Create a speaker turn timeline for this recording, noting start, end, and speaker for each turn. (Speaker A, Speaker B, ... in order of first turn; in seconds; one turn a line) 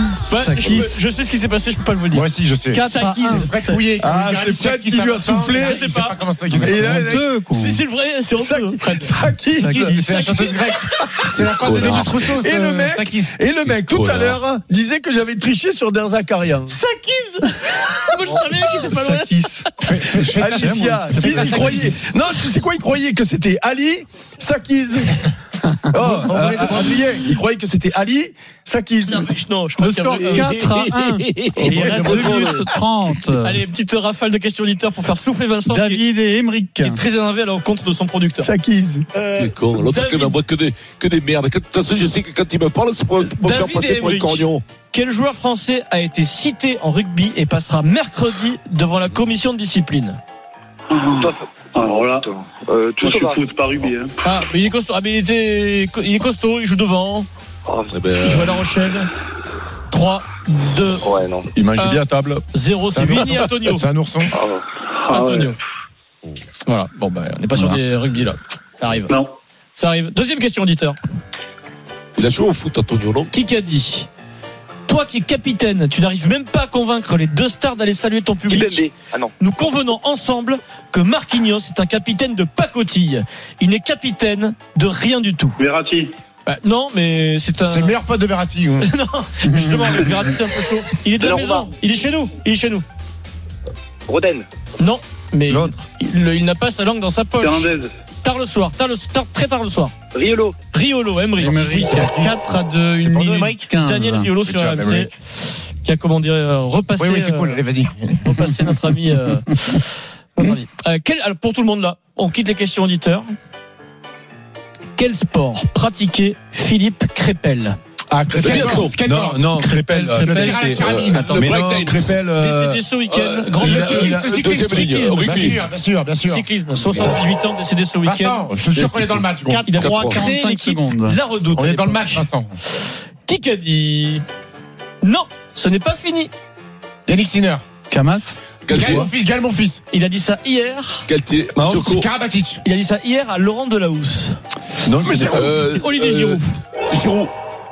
Speaker A: 0.3-3.9
Speaker B: 0.3-1.0
Speaker C: 2.1-6.9
Speaker B: 2.7-3.5
Speaker D: 4.0-5.8
Speaker A: 5.6-6.2
Speaker B: 6.5-7.8
Speaker D: 6.5-7.3
Speaker A: 7.5-9.2
Speaker D: 8.4-10.0
Speaker B: 9.5-10.3
Speaker C: 9.6-13.4
Speaker A: 10.1-11.2
Speaker D: 11.4-16.7
Speaker E: 11.6-12.1
Speaker E: 13.6-14.4
Speaker A: 16.7-19.4
Speaker B: 18.9-22.1
Speaker C: 19.8-21.9
Speaker D: 20.1-25.3
Speaker B: 25.7-26.1
Speaker D: 25.9-29.3
Speaker C: 26.1-27.1
Speaker A: 29.1-32.7
Speaker B: 29.8-33.6
Speaker D: 31.6-32.4
Speaker E: 31.8-32.6
Speaker A: 33.4-36.0
Speaker B: 35.7-37.0
Speaker A: 36.8-38.5
Speaker D: 38.4-39.0
Speaker A: 39.1-40.4
Speaker E: 39.3-44.6
Speaker A: 43.4-50.2
Speaker F: 50.9-52.3
Speaker G: 51.2-53.4
Speaker F: 53.0-54.1
Speaker A: 54.2-57.3
Speaker G: 57.7-57.9
Speaker E: 57.9-58.7
Speaker A: 58.2-59.1
Speaker A: 59.9-61.1
Speaker G: 61.0-61.5
Speaker D: 61.5-62.4
Speaker A: 61.8-63.9
Speaker C: 62.9-64.4
Speaker G: 64.3-64.7
Speaker F: 65.0-65.5
Speaker A: 65.1-65.6
Speaker A: 66.7-69.2
Speaker A: 69.8-71.0
Speaker E: 72.2-73.3
Speaker A: 73.3-74.1
Speaker A: 74.9-78.9
Speaker G: 78.5-79.3
Speaker A: 79.4-85.6
Speaker F: 85.6-86.2
Speaker A: 86.4-88.0
Speaker C: 87.7-88.9
Speaker A: 88.8-92.8
Speaker B: 89.4-90.2
Speaker G: 91.2-91.7
Speaker G: 94.1-94.5
Speaker A: 94.8-99.9
Speaker F: 97.4-97.9
Speaker G: 100.1-100.6
Speaker A: 100.6-102.1
Speaker B: 101.4-104.3
Speaker C: 101.9-102.4
Speaker C: 103.0-103.7
Speaker A: 103.8-105.1
Speaker C: 104.4-105.1
Speaker A: 105.8-107.6
Speaker C: 107.0-108.2
Speaker A: 108.2-113.3
Speaker A: 115.0-117.8
Speaker D: 118.1-124.4
Speaker C: 118.3-121.5
Speaker E: 118.4-119.0
Speaker B: 119.8-120.6
Speaker E: 120.7-122.2
Speaker A: 122.4-125.6
Speaker E: 123.1-123.5
Speaker C: 123.6-127.2
Speaker E: 124.3-125.7
Speaker A: 126.2-128.5
Speaker C: 128.0-129.6
Speaker E: 128.7-130.2
Speaker B: 129.4-131.2
Speaker A: 129.6-132.3
Speaker C: 131.5-132.6
Speaker A: 133.2-134.2
Speaker A: 135.0-136.3
Speaker C: 137.1-137.6
Speaker B: 137.9-139.1
Speaker E: 138.7-139.1
Speaker C: 138.7-139.8
Speaker A: 139.9-141.1
Speaker E: 141.1-142.1
Speaker D: 141.5-142.1
Speaker C: 141.8-142.6
Speaker A: 142.6-144.4
Speaker D: 144.8-145.6
Speaker E: 145.1-147.3
Speaker A: 145.7-146.6